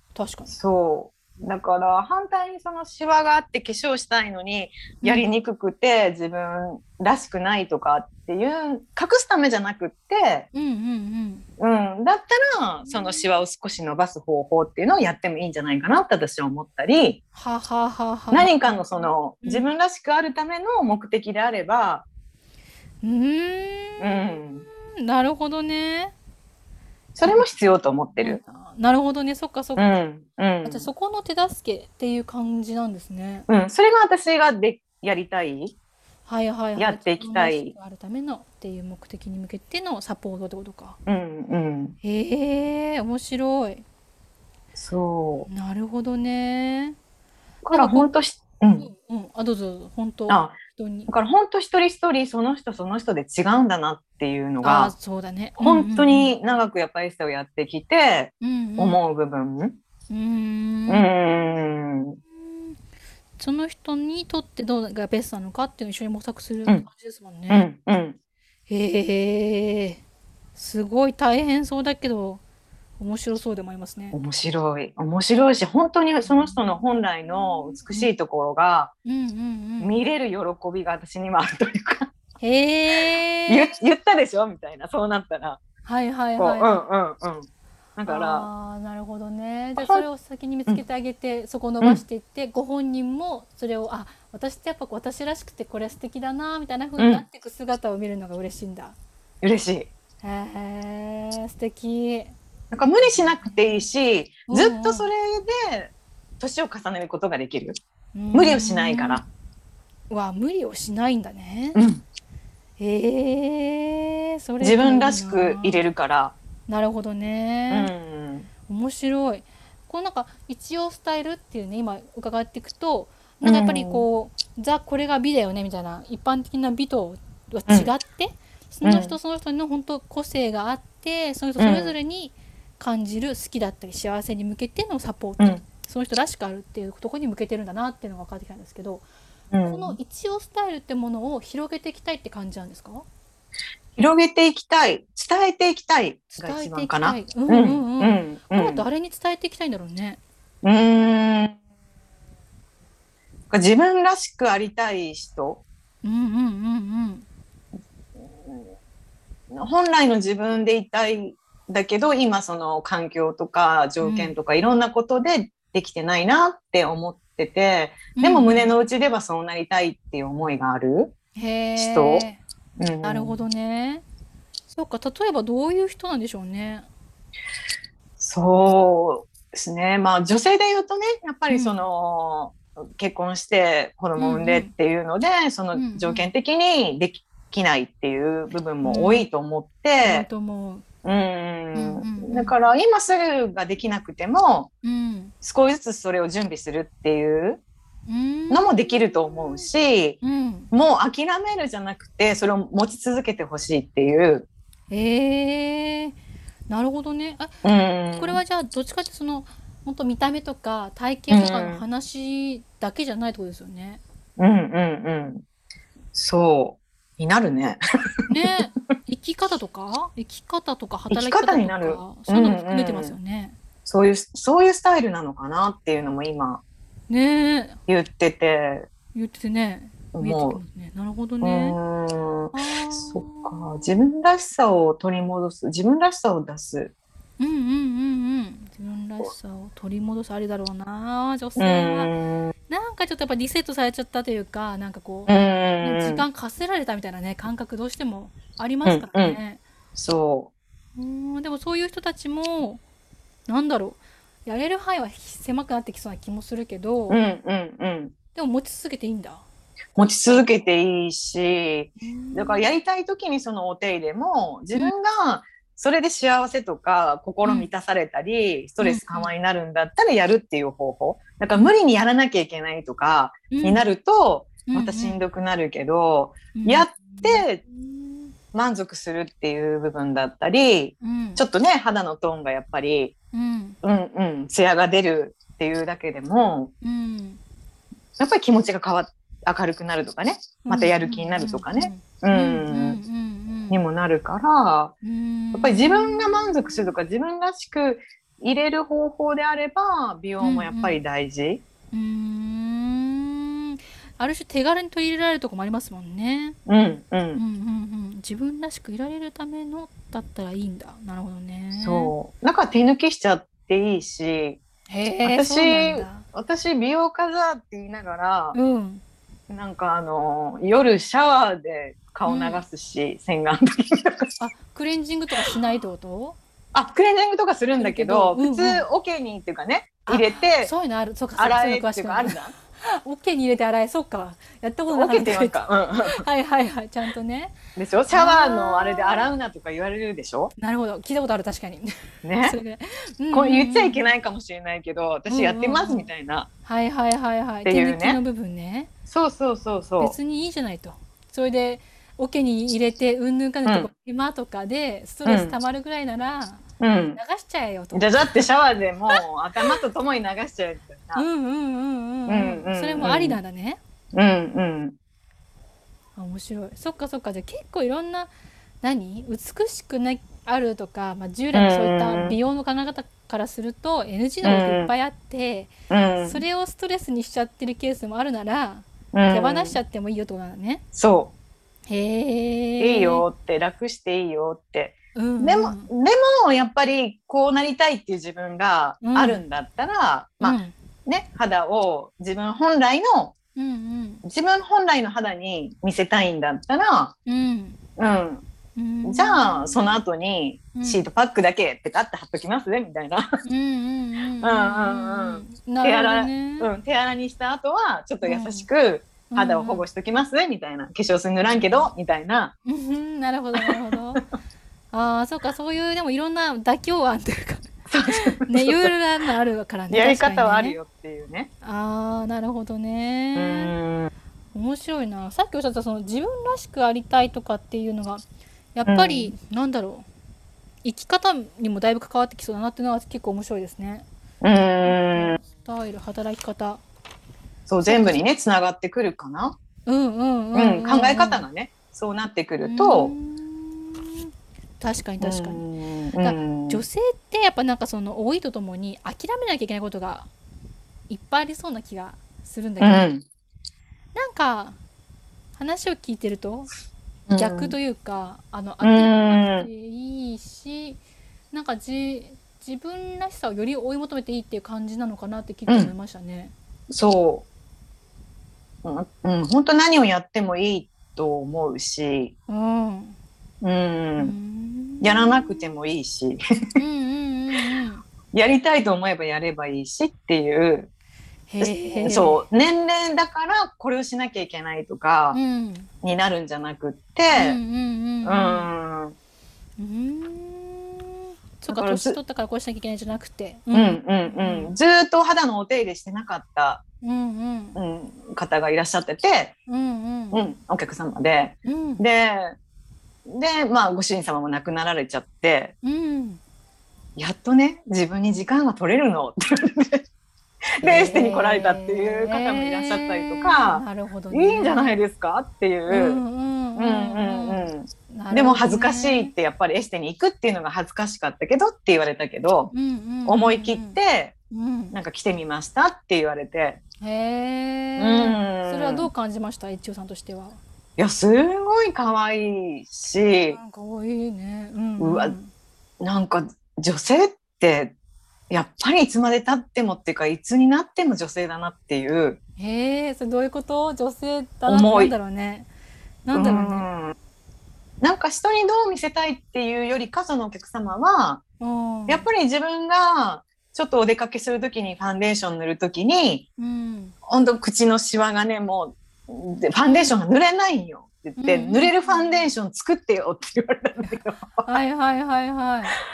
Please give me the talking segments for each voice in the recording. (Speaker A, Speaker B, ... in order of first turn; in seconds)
Speaker A: 0.1-0.6, 5.0-5.3, 10.5-11.5, 12.9-13.2, 17.4-19.7, 23.0-24.4, 25.0-26.1, 28.2-29.9, 30.6-33.5, 36.3-41.0, 42.0-43.9, 45.5-47.0, 47.7-48.1, 48.8-51.1, 54.6-56.3, 58.4-59.0, 60.1-61.1, 62.3-62.8, 63.4-67.7, 68.7-70.0, 70.5-72.4, 73.0-74.2, 76.2-76.6, 77.9-78.1, 79.0-80.0, 82.4-83.8, 85.8-86.8, 88.1-99.0, 100.2-102.4, 104.5-105.1, 108.2-109.2, 110.1-111.8, 112.8-115.8, 116.7-117.9, 118.7-139.1, 139.7-143.1, 146.3-150.2, 156.0-157.3, 164.0-164.3, 168.2-168.8, 171.4-172.4, 173.0-174.0, 174.7-176.9, 181.5-181.8, 184.2-184.7, 185.7-186.3, 188.8-189.3, 190.0-190.8, 191.7-192.6, 194.8-195.3, 198.1-199.4, 200.2-200.7, 204.9-206.2, 206.7-207.6, 208.2-214.0, 218.3-223.6, 227.1-227.8, 229.2-231.8, 232.5-233.9, 237.4-242.1, 242.7-249.6, 251.0-252.8, 253.5-257.2, 258.4-259.4, 262.0-262.7, 267.4-267.7, 268.8-269.3, 273.5-273.9, 274.7-275.2, 276.6-278.3, 281.0-281.4, 283.3-283.8, 286.8-287.4, 290.6-293.8, 295.0-296.9, 300.4-301.0, 301.9-306.6, 307.4-312.1, 314.9-316.3, 318.5-319.0, 322.2-322.6, 324.4-326.4, 327.8-328.9, 330.1-337.6, 338.1-339.3, 340.6-344.1, 345.3-346.1, 346.7-348.9, 350.0-356.6, 357.2-358.3, 359.1-359.8, 361.1-363.8, 366.2-368.3, 368.8-380.8, 381.9-383.2, 385.1-385.9, 389.0-389.4, 390.4-390.7, 393.6-394.2, 397.3-397.8, 398.8-400.0, 400.7-401.1, 403.4-406.7, 408.2-408.7, 409.3-409.9, 411.5-411.9, 412.7-414.2, 414.9-420.8, 421.6-423.8, 424.5-428.2, 428.8-430.1, 430.8-434.1, 434.9-436.8, 437.9-438.2, 439.9-441.5, 442.6-445.6, 446.2-450.3, 451.1-453.1, 454.1-454.8, 455.6-456.7, 457.3-466.5, 472.5-473.2, 474.2-475.7, 476.8-478.0, 481.5-482.4, 485.3-485.9, 487.3-488.7, 489.8-494.7, 497.0-497.8, 499.7-500.5, 501.6-502.0, 505.8-506.4, 510.8-515.0, 515.9-519.3, 522.7-524.0, 524.5-525.0, 527.0-530.6, 533.5-535.5, 542.6-545.7, 546.2-546.9, 551.6-552.3, 556.6-557.1, 559.9-560.1, 561.4-562.5, 564.6-566.0
Speaker B: 0.5-10.5, 11.6-17.2, 18.3-22.1, 24.0-24.6, 27.2-28.4, 29.8-30.9, 33.5-35.8, 36.8-37.7, 41.1-42.0, 44.8-45.5, 47.6-48.9, 50.3-54.9, 55.6-59.8, 60.9-62.2, 67.5-68.2, 74.1-78.9, 79.8-82.1, 83.5-85.6, 86.4-88.5, 89.8-90.0, 97.0-97.2, 99.4-99.9, 102.7-107.8, 108.3-109.2, 111.8-112.0, 114.6-116.3, 117.7-118.5, 123.4-124.1, 128.8-129.2, 131.6-131.9, 139.5-140.0, 144.0-148.8, 150.6-151.6, 153.5-155.6, 159.5-171.1, 171.8-172.3, 172.8-173.4, 178.2-190.3, 191.0-194.7, 195.4-197.6, 198.5-200.2, 200.7-204.5, 207.6-208.4, 211.3-211.8, 214.4-215.4, 216.1-217.8, 221.1-223.2, 223.9-226.6, 227.9-228.9, 230.1-230.6, 231.4-236.9, 241.6-242.5, 245.3-246.2, 248.8-249.4, 249.9-250.5, 257.1-258.1, 259.9-277.6, 278.5-283.1, 283.8-286.7, 288.2-293.0, 293.7-294.9, 295.5-301.6, 306.7-307.4, 311.7-314.6, 315.2-318.6, 319.5-324.3, 326.7-330.7, 331.4-332.5, 334.9-336.2, 337.8-340.5, 342.2-342.6, 343.3-346.5, 347.6-348.2, 349.1-350.1, 355.2-355.6, 356.8-357.2, 357.9-361.3, 362.3-363.4, 364.1-365.0, 371.5-372.4, 374.4-374.9, 375.9-376.4, 379.1-379.8, 380.9-381.3, 382.8-393.4, 394.2-397.1, 398.0-398.4, 399.1-403.3, 404.4-412.6, 417.9-418.9, 419.9-421.5, 423.4-424.1, 428.9-429.3, 434.4-435.4, 437.7-439.6, 440.5-443.1, 445.2-446.8, 452.8-453.2, 457.3-457.8, 458.8-459.7, 465.7-465.9, 466.9-467.4, 468.8-472.3, 473.6-474.4, 475.0-476.4, 478.3-480.9, 481.6-485.4, 486.0-487.6, 488.2-489.2, 491.7-492.2, 493.7-496.8, 497.8-499.6, 500.3-502.6, 503.3-505.7, 507.2-510.0, 510.8-516.2, 516.8-522.7, 523.3-524.3, 524.9-526.8, 528.0-529.1, 531.0-533.6, 535.0-535.4, 536.0-537.9, 538.5-542.4, 544.7-545.1, 546.3-547.1, 548.0-551.4, 552.1-556.5, 557.3-564.7